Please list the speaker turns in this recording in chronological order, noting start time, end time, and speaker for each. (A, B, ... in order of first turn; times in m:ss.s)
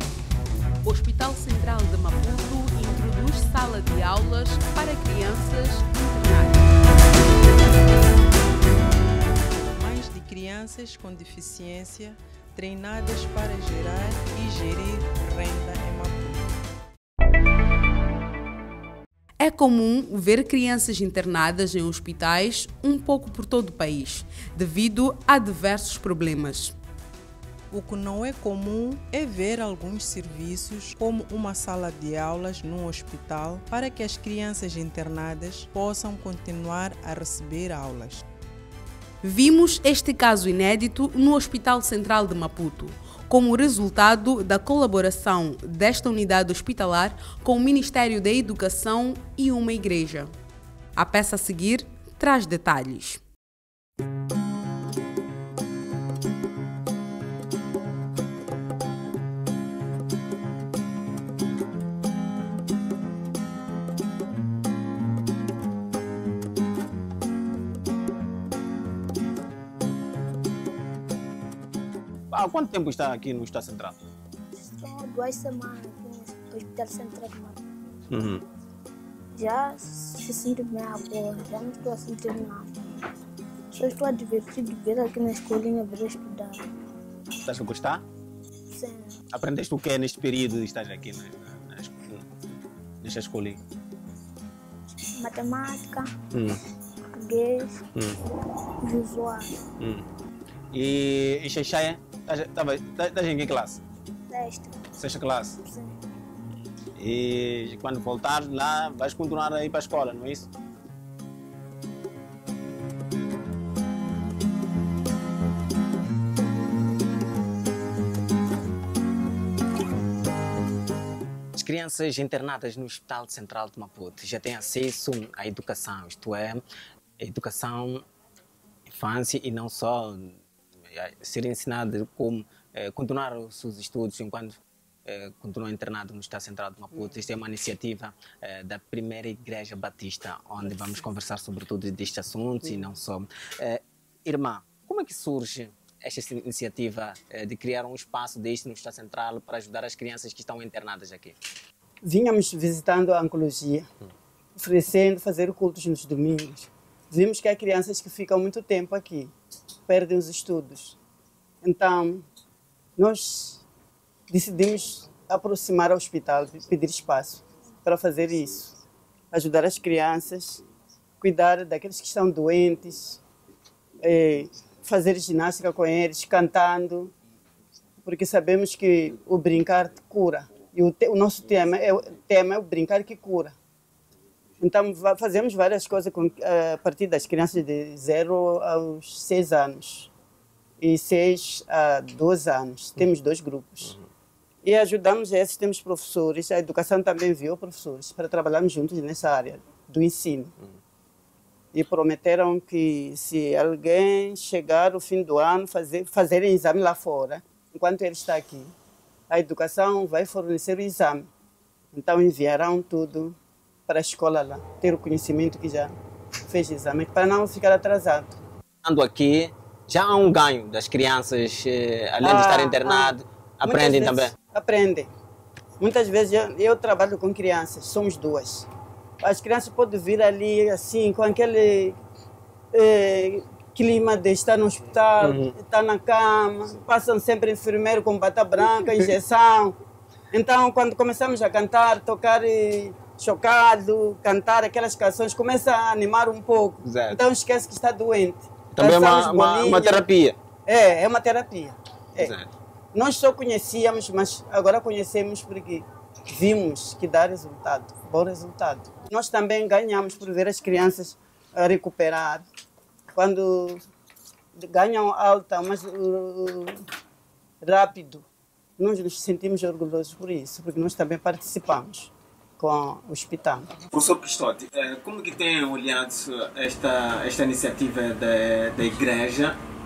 0:00.8-0:06.7 A
0:09.6-0:16.5 B
0:19.4-0:26.7 A
0:27.7-0:38.2 B
0:39.2-0:50.3 A
0:51.0-0:53.2 A
1:12.3-1:14.0 C
1:14.6-1:17.6 D
1:18.1-1:18.4 C
1:19.3-1:22.7 D
1:23.7-1:26.6 D
1:27.4-1:28.0 C
1:28.7-1:29.2 D
1:29.3-1:32.3 C
1:33.0-1:33.6 C
1:35.2-1:36.1 D
1:36.3-1:36.6 C
1:37.1-1:37.8 D
1:38.8-1:39.5 D
1:39.8-1:40.0 C
1:40.7-1:43.8 C
1:44.3-1:44.8 D
1:45.0-1:45.6 C
1:45.6-1:46.0 D
1:47.0-1:50.4 C
2:01.5-2:06.6 C
2:07.2-2:08.0 C
2:08.9-2:10.4 C
2:10.9-2:31.4 C
2:32.0-2:33.9 E
2:34.6-2:39.3 E
2:39.9-2:41.0 E
2:41.6-2:42.2 E
2:43.0-2:43.6 E
2:44.3-2:48.7 E
2:49.3-2:50.6 E
2:51.2-2:53.2 E
2:54.0-2:57.1 E
2:58.0-3:03.5 E
3:04.6-3:10.1 E
3:10.8-3:13.9 E
3:14.6-3:20.5 E
3:21.7-3:28.7 E
3:29.3-3:31.3 E
3:31.9-3:33.4 E
3:33.9-3:35.9 E
3:36.5-3:38.4 E
3:38.8-3:44.3 C
3:42.2-3:43.1 E
3:43.7-3:45.1 E
3:45.8-3:48.6 E
3:49.2-3:52.0 E
3:52.7-3:59.7 E
3:55.2-3:55.5 C
3:58.8-3:59.1 C
4:00.3-4:10.0 E
4:06.8-4:07.2 C
4:08.7-4:10.3 C
4:10.7-4:12.3 E
4:12.2-4:12.5 C
4:12.9-4:22.4 E
4:23.1-4:23.8 E
4:24.6-4:26.8 E
4:27.6-4:28.2 E
4:28.8-4:33.7 E
4:33.9-4:39.6 F